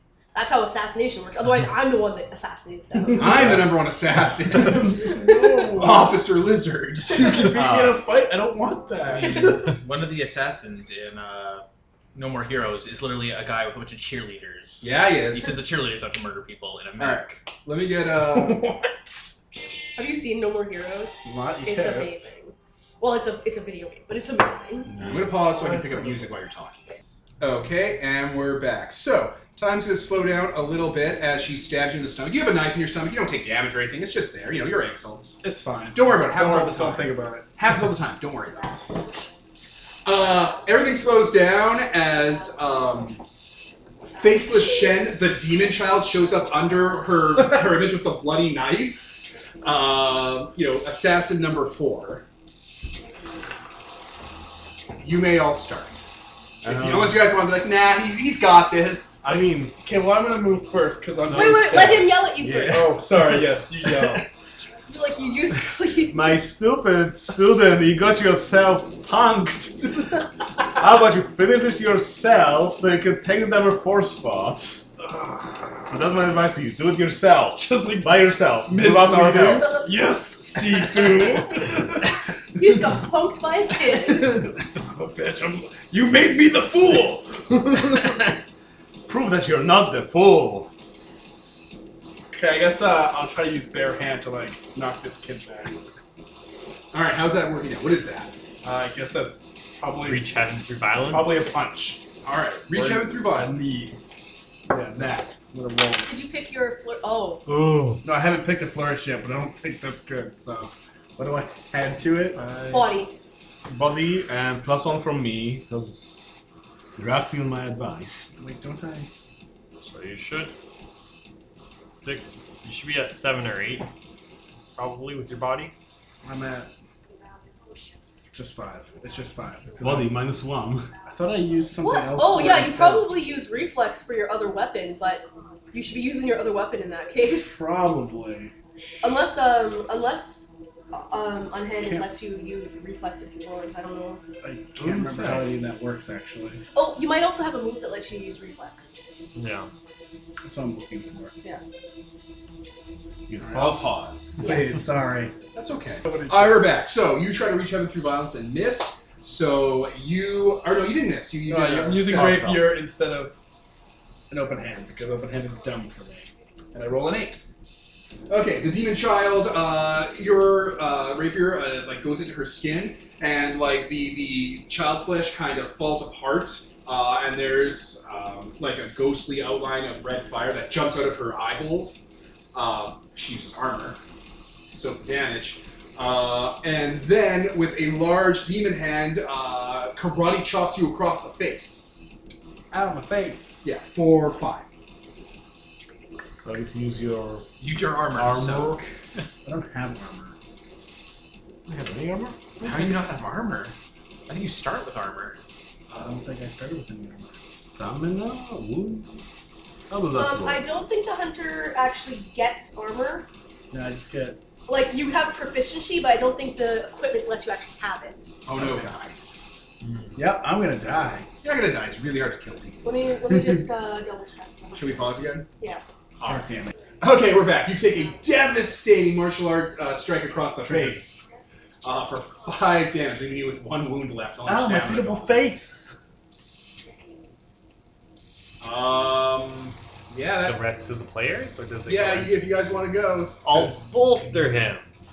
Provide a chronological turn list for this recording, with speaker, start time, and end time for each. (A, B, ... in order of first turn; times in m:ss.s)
0:00.3-0:03.5 A
0:03.2-0:03.7 B
0:03.2-0:07.5 C
0:04.6-0:06.2 B
0:05.2-0:05.5 A
0:07.1-0:09.7 B
0:09.0-0:17.2 D
0:14.8-0:15.6 C
0:17.0-0:18.7 C
0:18.2-0:19.3 B
0:20.0-0:24.9 A
0:21.2-0:22.3 B
0:25.0-0:26.9 C
0:25.1-0:26.3 B
0:27.4-0:38.8 C
0:35.4-0:37.5 B
0:40.0-0:43.2 C
0:44.1-0:52.2 C
0:55.0-0:56.0 C
0:56.6-0:57.2 E
0:56.6-0:59.4 C
0:59.2-0:59.7 E
0:59.7-1:04.2 B
1:01.3-1:03.0 A
1:01.3-1:01.6 E
1:02.3-1:03.5 E
1:04.9-1:06.3 A
1:06.1-1:14.8 E
1:15.0-1:15.8 B
1:15.8-1:19.8 E
1:17.5-1:22.1 B
1:22.5-1:24.3 A
1:23.8-1:28.4 B
1:29.1-1:30.7 E
1:32.3-1:35.8 B
1:36.9-1:38.3 C
1:38.6-1:40.3 B
1:40.0-1:41.4 F
1:41.0-1:42.1 B
1:42.2-1:43.8 C
1:42.7-1:44.0 B
1:44.7-1:46.1 B
1:46.0-1:47.4 A
1:47.5-1:48.0 F
1:48.0-1:52.4 B
1:52.4-1:52.9 E
1:52.7-1:53.2 A
1:53.6-1:56.4 E
1:57.0-1:58.3 E
1:58.4-1:59.1 B
1:59.8-2:00.5 F
2:01.9-2:03.9 F
2:04.8-2:05.7 F
2:06.2-2:06.7 B
2:08.3-2:10.1 B
2:09.8-2:10.9 E
2:11.0-2:13.2 B
2:11.8-2:17.6 A
2:17.4-2:18.5 B
2:19.0-2:24.2 A
2:21.8-2:22.1 B
2:24.4-2:26.6 B
2:24.8-2:25.5 E
2:26.7-2:29.0 A
2:29.3-2:29.7 F
2:30.4-2:31.3 B
2:33.3-2:33.7 E
2:33.4-2:35.5 B
2:33.5-2:34.6 C
2:35.5-2:42.5 C
2:36.0-2:36.7 B
2:41.5-2:43.4 B
2:42.1-2:42.8 E
2:44.3-2:47.4 B
2:48.3-3:04.0 C
3:04.7-3:11.9 C
3:12.7-3:13.7 B
3:13.6-3:14.7 C
3:16.4-3:17.5 E
3:17.6-3:18.8 D
3:18.0-3:18.8 E
3:19.4-3:20.4 B
3:21.7-3:22.4 E
3:22.6-3:23.7 D
3:24.3-3:25.4 D
3:25.9-3:29.2 B
3:29.9-3:30.6 E
3:30.2-3:33.3 A
3:33.7-3:34.4 B
3:34.7-3:38.3 A
3:38.4-3:39.4 C
3:39.8-3:40.1 F
3:40.1-3:41.3 B
3:41.4-3:43.2 C
3:42.8-3:45.8 A
3:44.7-3:45.5 C
3:46.2-3:46.7 B
3:47.0-3:51.2 C
3:50.6-3:51.2 B
3:51.8-3:55.3 C
3:54.4-3:56.0 B
3:58.6-4:00.6 C
4:00.4-4:02.4 F
4:01.8-4:03.7 C
4:03.4-4:04.9 F